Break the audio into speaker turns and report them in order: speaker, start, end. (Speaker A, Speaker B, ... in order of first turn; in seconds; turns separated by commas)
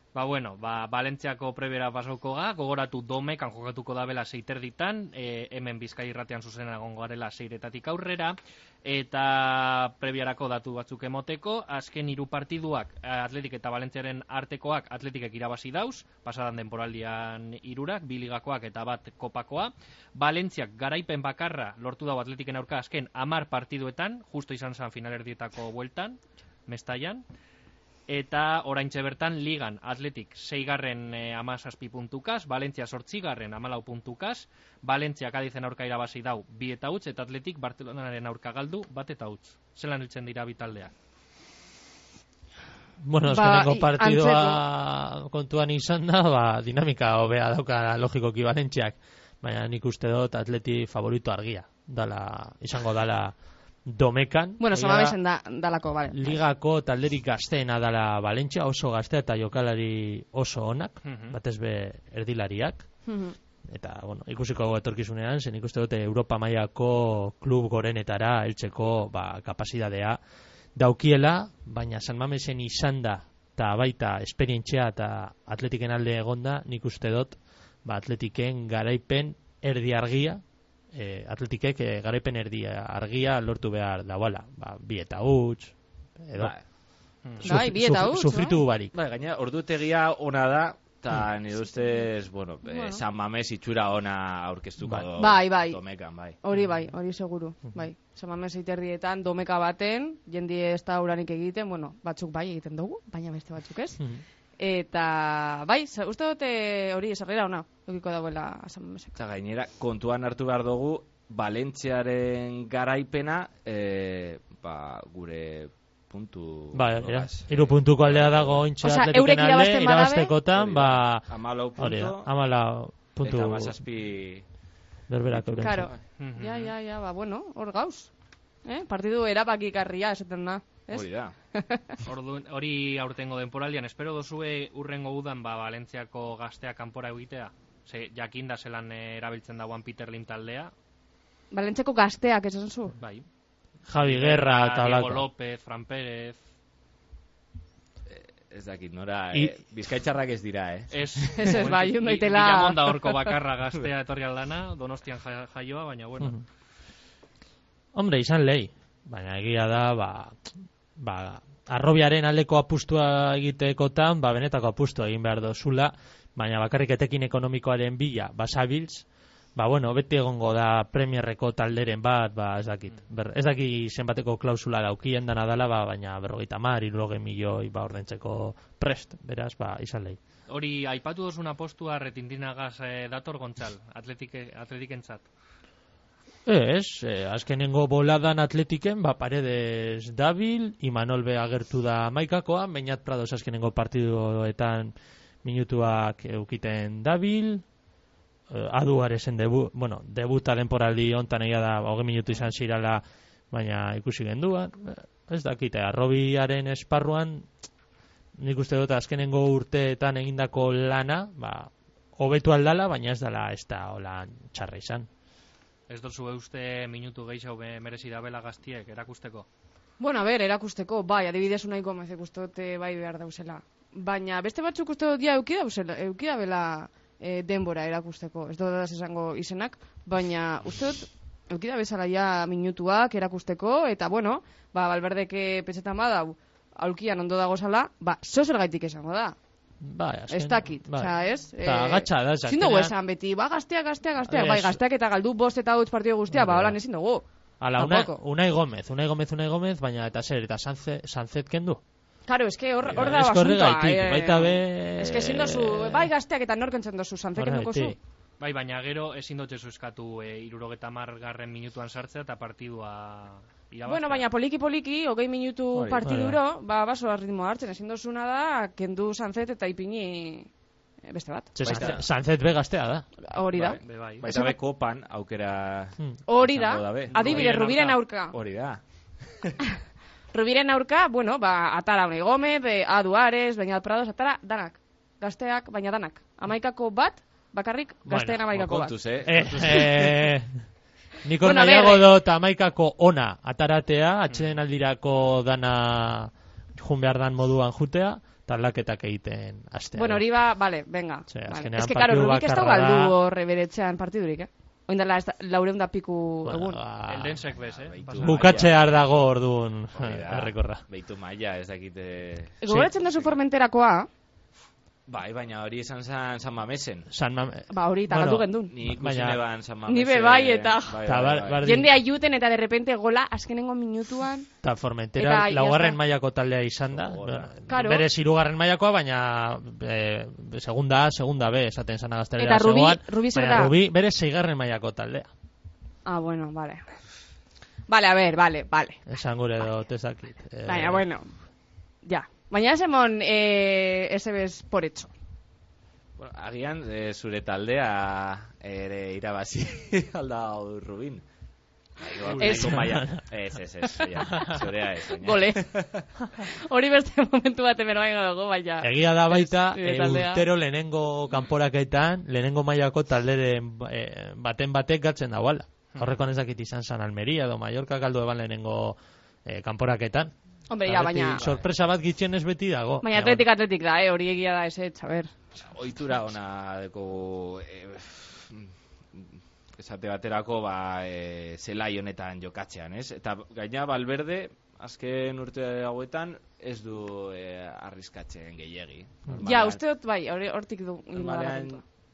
Speaker A: 0.1-27.2, Speaker A: 28.1-40.9, Speaker B: 43.0-53.3, Speaker C: 43.3-44.6, Speaker B: 53.9-55.1, Speaker C: 54.6-56.4, Speaker B: 56.1-62.9, Speaker A: 61.0-61.4, Speaker C: 63.0-63.4, Speaker B: 63.7-70.2, Speaker B: 70.8-80.4, Speaker B: 80.9-86.5, Speaker D: 86.4-86.6, Speaker B: 87.4-88.9, Speaker C: 87.4-88.6, Speaker D: 88.9-96.4, Speaker C: 92.6-93.0, Speaker C: 95.2-95.8, Speaker C: 96.4-104.0, Speaker C: 104.6-109.2, Speaker D: 109.2-118.6, Speaker B: 116.7-123.8, Speaker C: 118.8-120.3, Speaker D: 120.5-122.3, Speaker D: 123.2-124.4, Speaker B: 125.1-125.9, Speaker C: 125.5-128.1, Speaker A: 126.2-126.7, Speaker C: 128.6-132.0, Speaker D: 130.9-131.3, Speaker A: 132.0-140.7, Speaker C: 141.5-142.9, Speaker A: 143.0-143.2, Speaker B: 143.9-145.2, Speaker A: 144.0-146.4, Speaker D: 148.1-151.7, Speaker A: 150.9-156.4, Speaker C: 151.3-153.3, Speaker B: 157.9-180.2, Speaker A: 180.5-185.2, Speaker B: 186.4-197.6, Speaker B: 198.5-207.5, Speaker B: 208.4-215.1, Speaker A: 215.9-219.5, Speaker C: 220.0-239.3, Speaker B: 239.8-242.9, Speaker C: 240.3-247.2, Speaker B: 244.2-244.8, Speaker B: 246.3-246.8, Speaker B: 247.6-251.8, Speaker C: 247.8-248.2, Speaker C: 252.3-257.9, Speaker B: 252.9-256.1, Speaker B: 257.4-257.9, Speaker A: 258.4-264.2, Speaker C: 263.9-270.5, Speaker D: 265.7-266.1, Speaker B: 266.0-266.4, Speaker C: 271.1-271.9, Speaker B: 271.5-273.1, Speaker D: 271.6-272.0, Speaker C: 273.2-274.6, Speaker D: 273.5-277.5, Speaker A: 273.8-274.2, Speaker C: 276.3-278.3, Speaker A: 277.1-278.0, Speaker D: 278.3-279.5, Speaker C: 280.3-289.0, Speaker B: 288.1-288.4, Speaker D: 288.5-290.2, Speaker B: 289.2-290.5, Speaker C: 289.5-290.0, Speaker B: 291.2-300.2, Speaker C: 291.4-292.1, Speaker C: 299.9-306.8, Speaker B: 301.3-303.1, Speaker B: 306.4-307.4, Speaker A: 307.1-308.8, Speaker D: 307.6-308.8, Speaker B: 308.2-310.8, Speaker D: 309.9-313.4, Speaker C: 312.6-314.1, Speaker D: 315.1-317.1, Speaker B: 317.1-319.4, Speaker C: 317.7-318.7, Speaker D: 318.7-321.7, Speaker C: 319.9-324.5, Speaker B: 321.0-321.9, Speaker B: 324.6-335.3, Speaker C: 325.2-326.0, Speaker D: 326.9-327.6, Speaker C: 327.7-328.1, Speaker C: 332.4-333.7, Speaker C: 336.0-336.8, Speaker C: 337.9-339.0, Speaker B: 339.1-341.0, Speaker C: 340.6-341.3, Speaker C: 342.0-345.1, Speaker D: 346.2-351.2, Speaker D: 352.0-356.0, Speaker C: 352.4-353.0, Speaker B: 352.4-353.2, Speaker C: 353.8-355.7, Speaker C: 356.3-360.5, Speaker B: 358.8-370.3, Speaker C: 370.7-371.4, Speaker B: 370.8-373.4, Speaker C: 373.0-375.4, Speaker D: 375.6-389.8, Speaker C: 389.4-391.8, Speaker D: 391.1-391.8